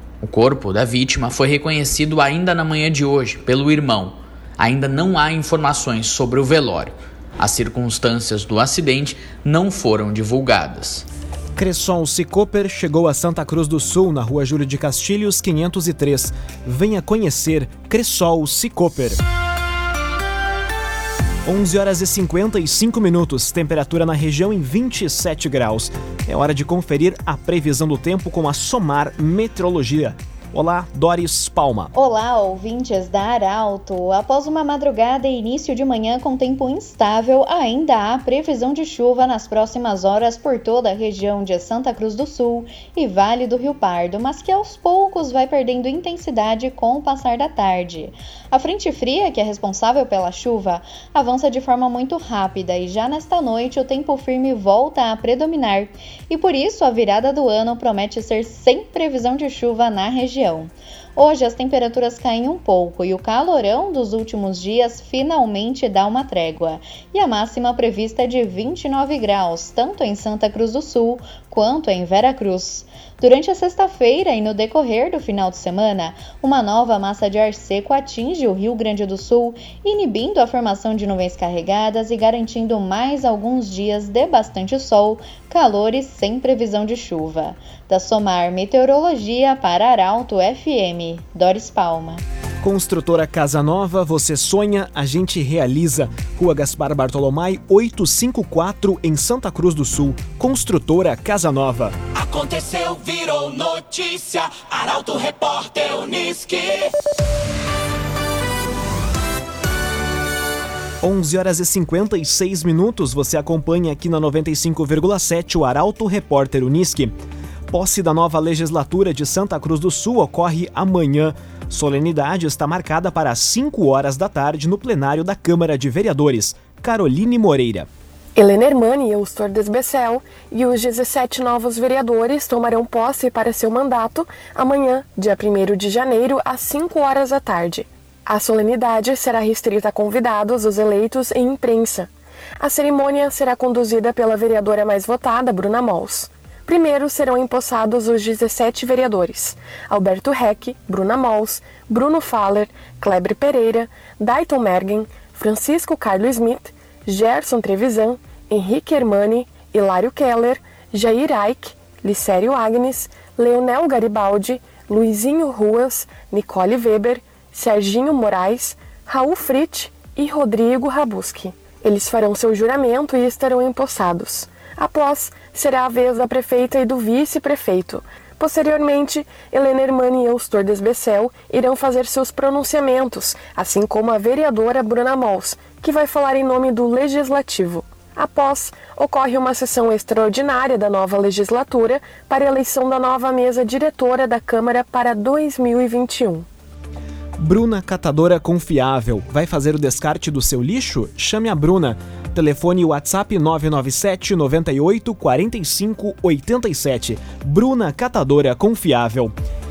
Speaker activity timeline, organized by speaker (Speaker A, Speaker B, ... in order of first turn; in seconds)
Speaker A: 0.2-11.1
Speaker B: 11.6-19.2, 21.5-31.9, 92.6-102.0, 111.0-117.1, 117.7-127.9, 197.4-209.3
Speaker C: 31.9-92.2
Speaker D: 102.1-106.9
Speaker E: 128.4-196.5